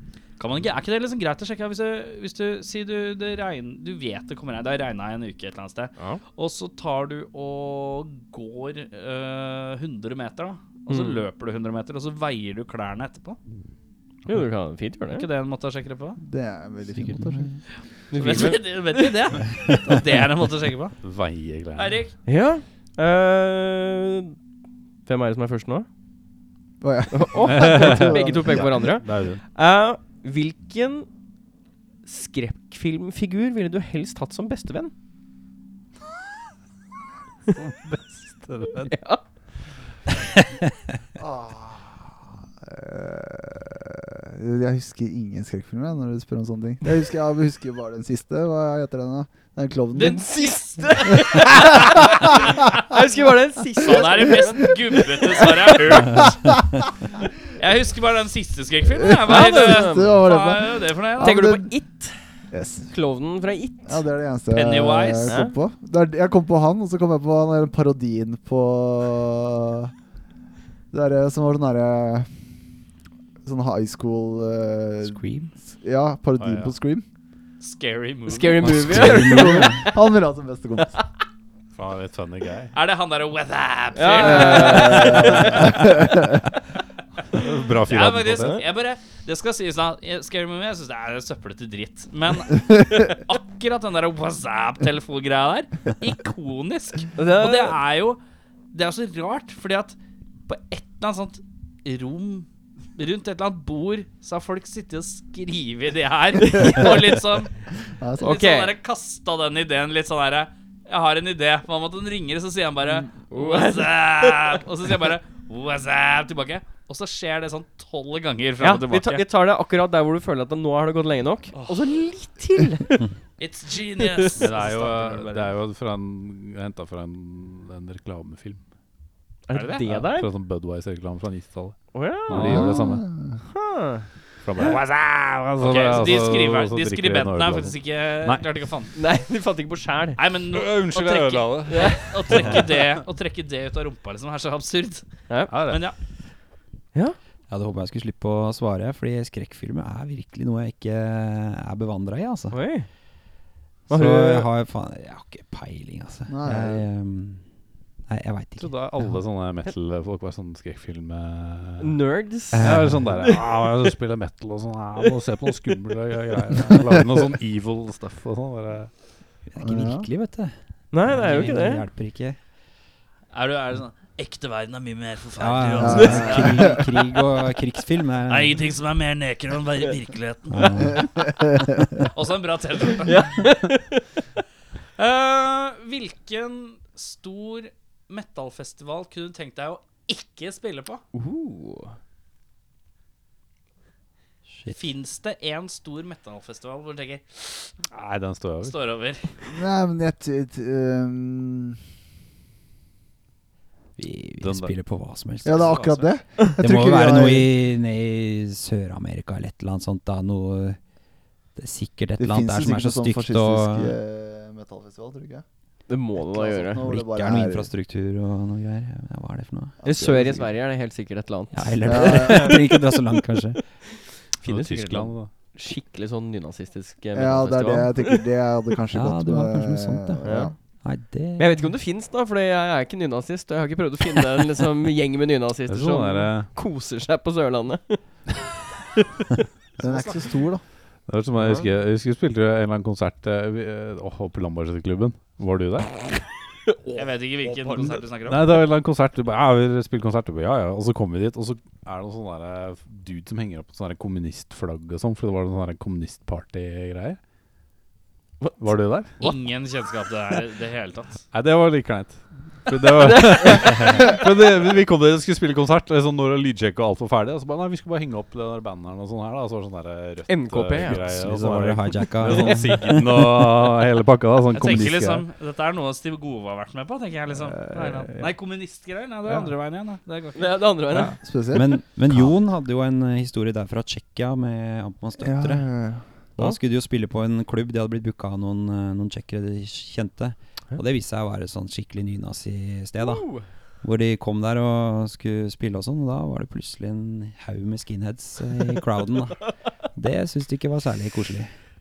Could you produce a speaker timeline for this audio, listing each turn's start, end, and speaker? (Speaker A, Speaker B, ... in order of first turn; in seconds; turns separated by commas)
Speaker A: 0.4-13.4, Speaker B: 6.0-6.2, Speaker B: 10.9-11.2, Speaker B: 14.2-15.2, Speaker A: 15.1-16.2, Speaker C: 16.2-17.6, Speaker D: 16.9-17.6, Speaker B: 18.1-19.1, Speaker A: 18.1-21.0, Speaker E: 21.0-22.0, Speaker A: 21.7-22.1, Speaker B: 22.2-24.4, Speaker B: 25.1-25.9, Speaker C: 26.8-28.7, Speaker B: 27.1-31.1, Speaker E: 27.4-29.4, Speaker B: 32.0-34.9, Speaker E: 37.5-39.0, Speaker B: 38.9-39.2, Speaker C: 41.2-50.2, Speaker A: 49.9-52.8, Speaker B: 50.0-56.3, Speaker C: 51.7-52.6, Speaker A: 53.8-56.6, Speaker C: 56.1-56.8, Speaker A: 57.4-61.4, Speaker C: 58.9-61.7, Speaker B: 59.2-60.2, Speaker B: 61.2-62.2, Speaker C: 62.5-62.9, Speaker B: 62.9-64.0, Speaker C: 63.9-69.9, Speaker A: 64.5-65.3, Speaker B: 65.3-65.5, Speaker C: 70.9-72.3, Speaker C: 73.4-77.0, Speaker D: 75.0-75.5, Speaker E: 76.4-76.7, Speaker A: 77.6-78.8, Speaker B: 78.3-80.0, Speaker D: 78.6-79.9, Speaker C: 79.0-81.0, Speaker E: 81.7-82.7, Speaker A: 82.7-86.0, Speaker B: 83.9-85.7, Speaker C: 84.2-86.4, Speaker E: 87.3-88.6, Speaker A: 87.9-98.2, Speaker B: 97.1-97.8, Speaker A: 98.7-100.0, Speaker A: 100.5-107.5, Speaker C: 108.0-108.3, Speaker A: 108.2-119.2, Speaker B: 108.2-108.7, Speaker B: 113.3-114.6, Speaker B: 118.6-123.1, Speaker A: 123.4-125.5, Speaker B: 124.0-124.4, Speaker E: 124.4-128.6, Speaker B: 129.5-130.3, Speaker A: 129.5-129.9, Speaker E: 129.8-133.0, Speaker B: 131.9-132.8, Speaker C: 132.3-133.4, Speaker B: 133.4-134.1, Speaker E: 134.4-138.4, Speaker A: 135.6-138.9, Speaker B: 138.9-140.2, Speaker A: 140.2-145.9, Speaker E: 140.5-143.0, Speaker B: 141.7-142.6, Speaker E: 145.5-145.8, Speaker D: 147.5-152.6, Speaker B: 152.5-152.9, Speaker B: 153.9-154.5, Speaker D: 153.9-157.4, Speaker C: 156.3-156.8, Speaker D: 158.1-159.1, Speaker E: 158.6-161.9, Speaker B: 161.8-163.5, Speaker E: 162.5-168.9, Speaker D: 162.5-163.1, Speaker D: 169.5-172.4, Speaker C: 169.6-170.1, Speaker B: 170.9-171.8, Speaker A: 173.3-176.8, Speaker D: 175.4-178.6, Speaker C: 175.8-176.8, Speaker B: 175.9-176.3, Speaker A: 178.3-181.0, Speaker D: 180.5-181.1, Speaker C: 181.0-181.6, Speaker A: 182.0-183.4, Speaker B: 183.0-184.2, Speaker A: 185.0-191.0, Speaker B: 191.1-192.0, Speaker A: 194.7-197.7, Speaker E: 197.9-198.8, Speaker A: 198.6-199.3, Speaker C: 199.4-201.8, Speaker D: 204.0-205.8, Speaker E: 204.4-204.7, Speaker C: 205.4-207.5, Speaker A: 205.5-206.1, Speaker D: 206.6-210.8, Speaker D: 211.6-214.0, Speaker C: 212.2-215.4, Speaker B: 215.9-216.8, Speaker C: 216.2-217.7, Speaker D: 216.8-219.8, Speaker C: 219.8-220.5, Speaker B: 219.8-222.8, Speaker D: 221.5-223.7, Speaker C: 221.8-222.7, Speaker B: 224.3-228.3, Speaker E: 224.4-225.3, Speaker C: 227.1-230.5, Speaker D: 228.9-231.7, Speaker B: 230.2-230.5, Speaker B: 231.4-238.0, Speaker E: 235.7-236.5, Speaker A: 239.8-240.2, Speaker C: 239.8-240.6, Speaker E: 241.1-246.1, Speaker B: 246.7-248.0, Speaker A: 246.9-248.5, Speaker E: 248.3-257.2, Speaker E: 258.6-259.1, Speaker A: 259.2-261.2, Speaker E: 261.3-275.2, Speaker B: 263.0-264.1, Speaker B: 270.3-271.1, Speaker D: 271.1-273.5, Speaker A: 274.5-281.1, Speaker C: 277.5-278.2, Speaker B: 280.3-281.2, Speaker C: 281.2-282.3, Speaker D: 281.5-285.7, Speaker C: 285.2-286.0, Speaker D: 286.4-293.3, Speaker B: 293.0-293.4, Speaker D: 293.8-301.5